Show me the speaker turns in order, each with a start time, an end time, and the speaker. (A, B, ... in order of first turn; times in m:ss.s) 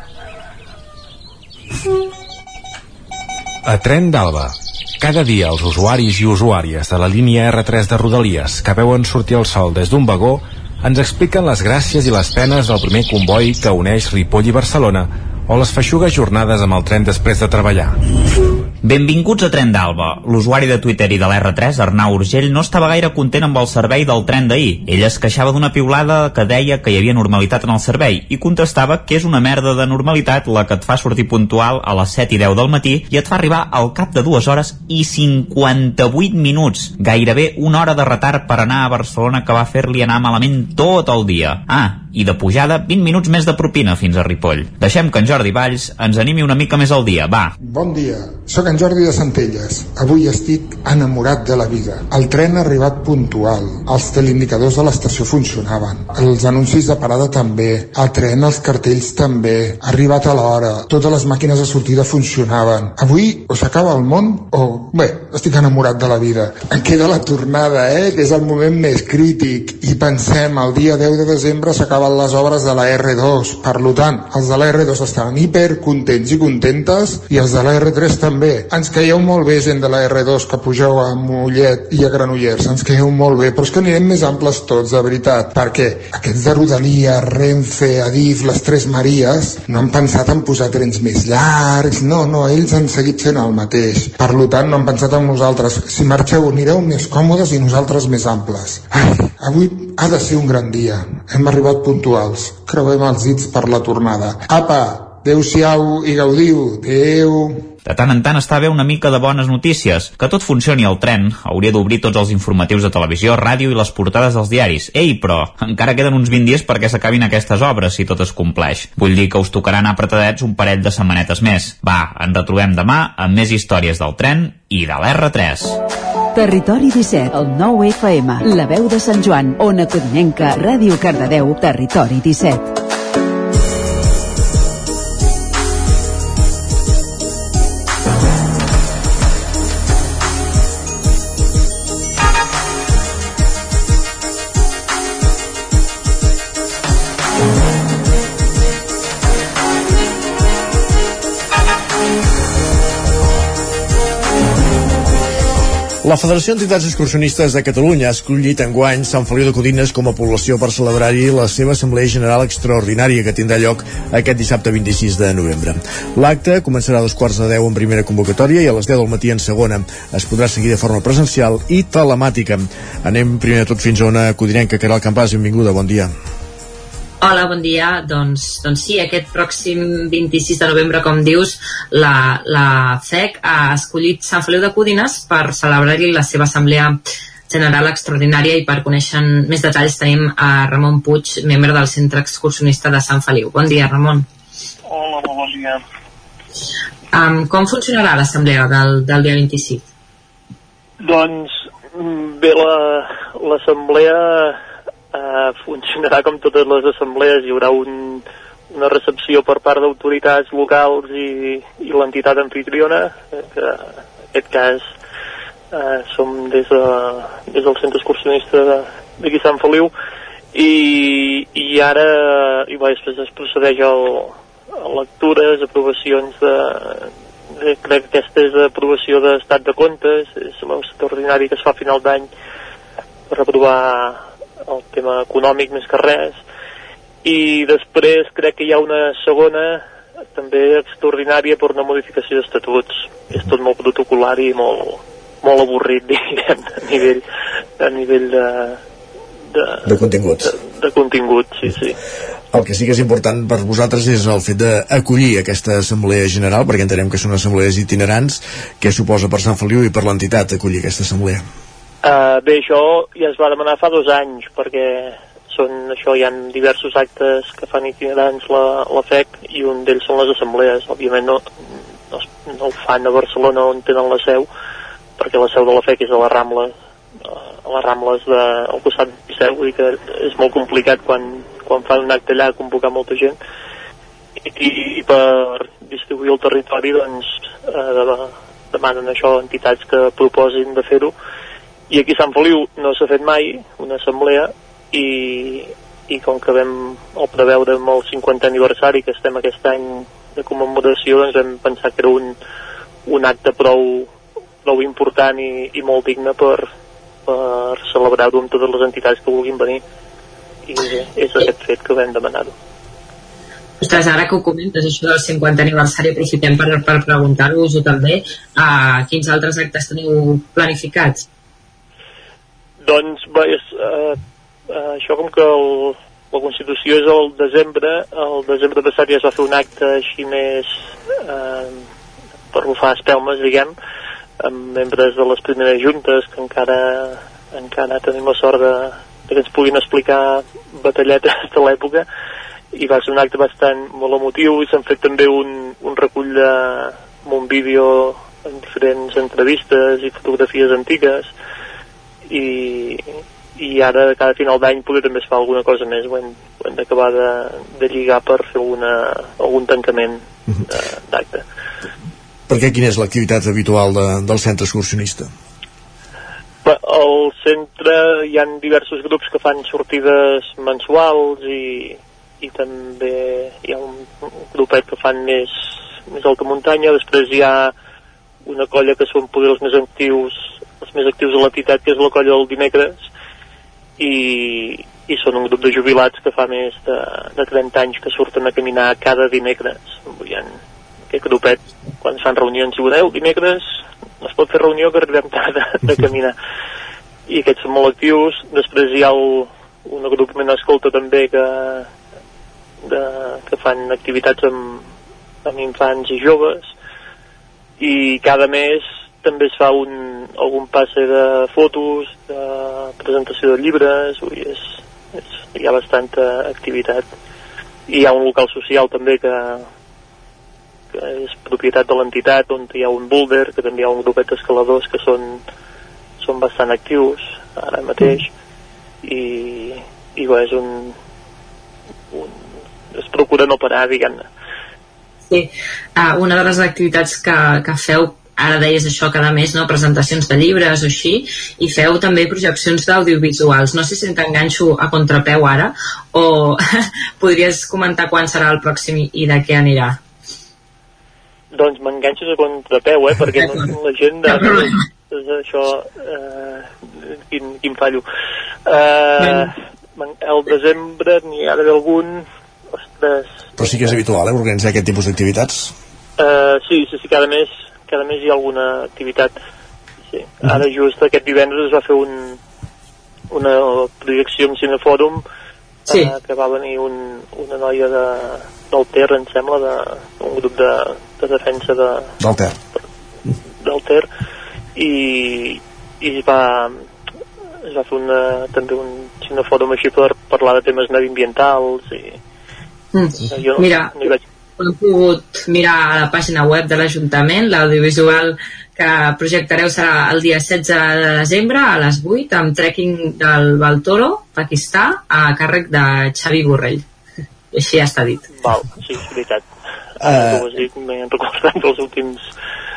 0:03.6-0:18.0 A
0:18.8-0:47.5 B
0:47.6-1:47.6 C
1:47.8-2:05.8 B
2:06.3-2:12.7 D
2:36.0-2:56.1 E
2:57.2-3:14.3 F
3:14.9-3:15.8 G
3:17.1-3:19.8 F
3:21.0-3:24.6 G
3:25.1-3:34.9 G
3:35.7-3:39.9 G
3:40.5-3:52.3 G
3:53.3-3:56.4 G
3:57.2-3:59.8 G
4:00.4-4:07.2 G
4:07.8-4:08.8 G
4:09.5-4:12.0 G
4:09.8-4:10.5 E
4:12.5-4:21.4 E
4:22.0-4:34.5 G
4:35.2-4:36.7 G
4:37.2-4:43.4 G
4:44.4-4:51.2 G
4:51.9-5:02.4 G
5:03.1-5:04.1 G
5:04.6-5:06.7 G
5:07.3-5:09.8 G
5:10.7-5:12.5 G
5:13.8-5:21.2 F
5:22.8-5:24.2 G
5:24.7-5:31.8 G
5:32.5-5:33.7 G
5:34.4-5:42.1 G
5:42.8-5:51.3 G
5:52.3-6:01.4 G
6:02.5-6:05.3 E
6:06.6-6:15.6 G
6:16.1-6:17.7 G
6:18.5-6:23.1 G
6:24.0-6:30.6 G
6:31.1-6:36.4 G
6:37.3-6:41.9 G
6:42.8-6:44.8 G
6:45.4-6:46.7 G
6:47.8-6:57.1 G
6:57.9-6:59.7 G
7:01.0-7:05.4 G
7:06.2-7:08.3 G
7:09.0-7:11.0 G
7:12.1-7:12.4 G
7:12.9-7:14.2 G
7:15.3-7:30.0 F
7:31.5-7:38.0 G
7:34.3-7:34.7 F
7:38.7-7:42.2 G
7:39.2-7:39.5 F
7:42.8-7:43.7 G
7:43.6-7:45.7 E
7:46.2-7:49.4 G
7:50.1-7:52.4 G
7:53.3-7:55.2 G
7:55.9-8:02.1 G
8:02.2-8:02.5 E
8:03.6-8:04.1 G
8:04.8-8:06.8 G
8:07.7-8:12.2 G
8:12.9-8:14.0 F
8:13.3-8:14.2 G
8:14.6-8:26.8 F
8:27.5-8:28.3 F
8:28.4-8:29.5 G
8:30.0-8:30.5 E
8:30.0-8:32.3 G